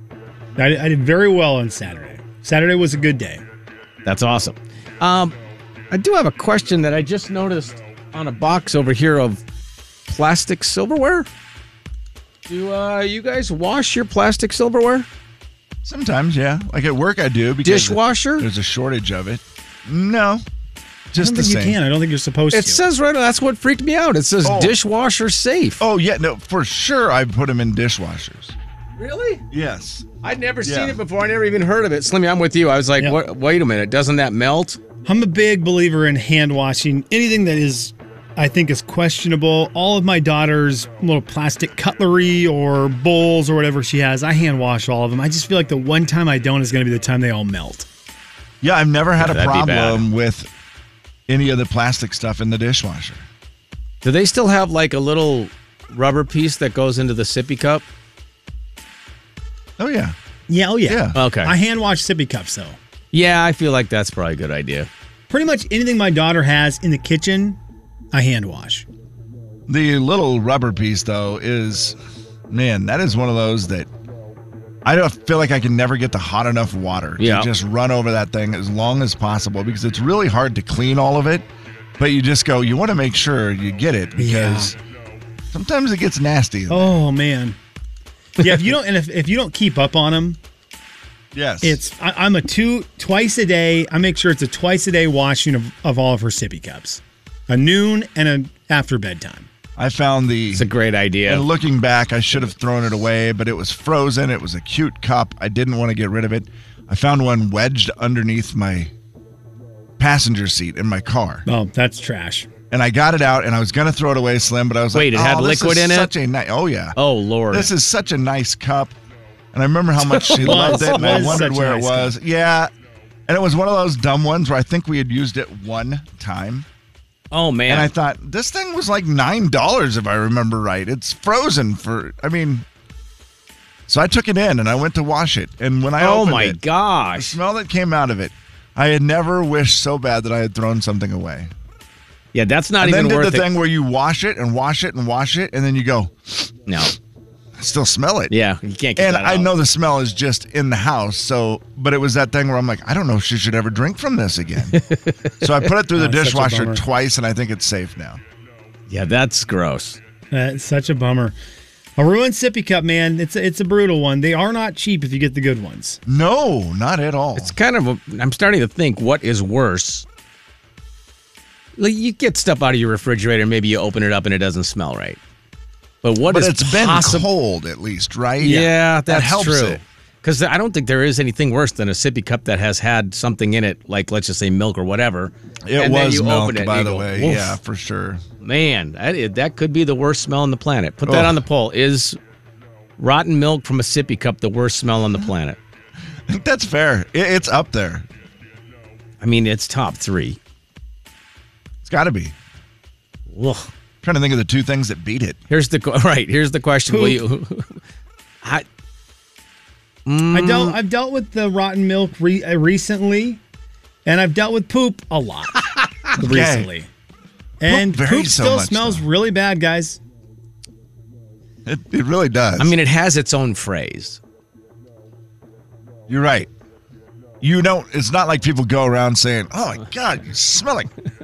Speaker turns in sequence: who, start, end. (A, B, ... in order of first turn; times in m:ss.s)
0:00.6-0:03.4 A
0:04.0-0:05.4 B
0:05.9-0:09.4 B
0:10.1-0:11.3 B
0:12.5-0:15.1 B
0:15.8-0:20.4 C
0:17.6-0:18.5 B
0:21.1-0:21.8 C
0:21.1-0:22.8 A
0:22.5-0:25.8 B
0:24.4-0:24.8 C
0:25.8-0:28.6 C
0:29.0-0:29.4 B
0:29.5-0:30.1 C
0:30.2-0:34.8 B
0:30.6-0:31.0 C
0:35.0-0:47.9 A
0:48.6-0:50.5 C
0:49.2-0:50.1 B
0:51.3-0:53.3 C
0:54.0-0:57.8 B
0:59.8-1:00.2 C
1:00.5-1:02.8 A
1:00.8-1:01.2 C
1:01.2-1:01.5 B
1:03.1-1:04.9 B
1:05.3-1:07.6 A
1:08.1-1:08.9 A
1:09.7-1:12.0 C
1:12.5-1:13.9 C
1:14.8-1:21.5 C
1:17.2-1:17.5 B
1:22.0-1:24.8 C
1:24.2-1:24.7 A
1:25.5-1:27.0 C
1:26.7-1:27.6 A
1:28.4-1:30.4 A
1:31.3-1:31.8 C
1:31.6-1:39.5 A
1:39.8-1:40.7 C
1:40.5-1:41.4 B
1:41.3-1:48.9 C
1:50.0-1:51.4 C
1:51.4-1:52.5 A
1:52.7-1:57.0 C
1:54.9-1:56.1 B
1:57.0-1:57.7 B
1:57.5-1:58.9 C
1:59.5-2:02.7 C
2:00.0-2:01.4 B
2:00.3-2:02.1 A
2:03.3-2:06.7 C
2:07.3-2:07.9 B
2:07.7-2:12.7 C
2:13.9-2:16.6 C
2:16.0-2:17.4 B
2:17.2-2:21.5 C
2:22.3-2:23.5 B
2:22.8-2:26.5 C
2:26.7-2:26.9 B
2:27.6-2:28.3 C
2:28.3-2:29.5 B
2:29.0-2:34.8 C
2:34.7-2:35.7 B
2:35.4-2:38.2 C
2:36.0-2:36.8 A
2:38.9-2:40.0 B
2:40.3-2:41.4 A
2:42.0-2:46.0 A
2:46.1-2:47.5 C
2:47.4-2:50.0 B
2:51.8-2:55.2 B
2:56.0-2:57.3 B
2:56.3-2:59.8 C
2:58.4-3:07.6 B
3:05.7-3:08.2 C
3:08.4-3:12.2 B
3:11.0-3:11.4 C
3:13.0-3:15.6 B
3:16.3-3:18.1 C
3:19.2-3:20.4 B
3:21.8-3:22.4 C
3:23.3-3:23.7 B
3:24.0-3:25.4 C
3:25.5-3:27.8 B
3:26.9-3:27.2 A
3:30.1-3:30.8 B
3:30.3-3:33.4 A
3:34.0-3:36.9 A
3:36.2-3:36.7 C
3:37.6-3:40.0 A
3:37.6-3:39.0 C
3:41.7-3:42.7 C
3:42.6-3:44.2 B
3:46.1-3:46.5 C
3:47.4-3:50.9 C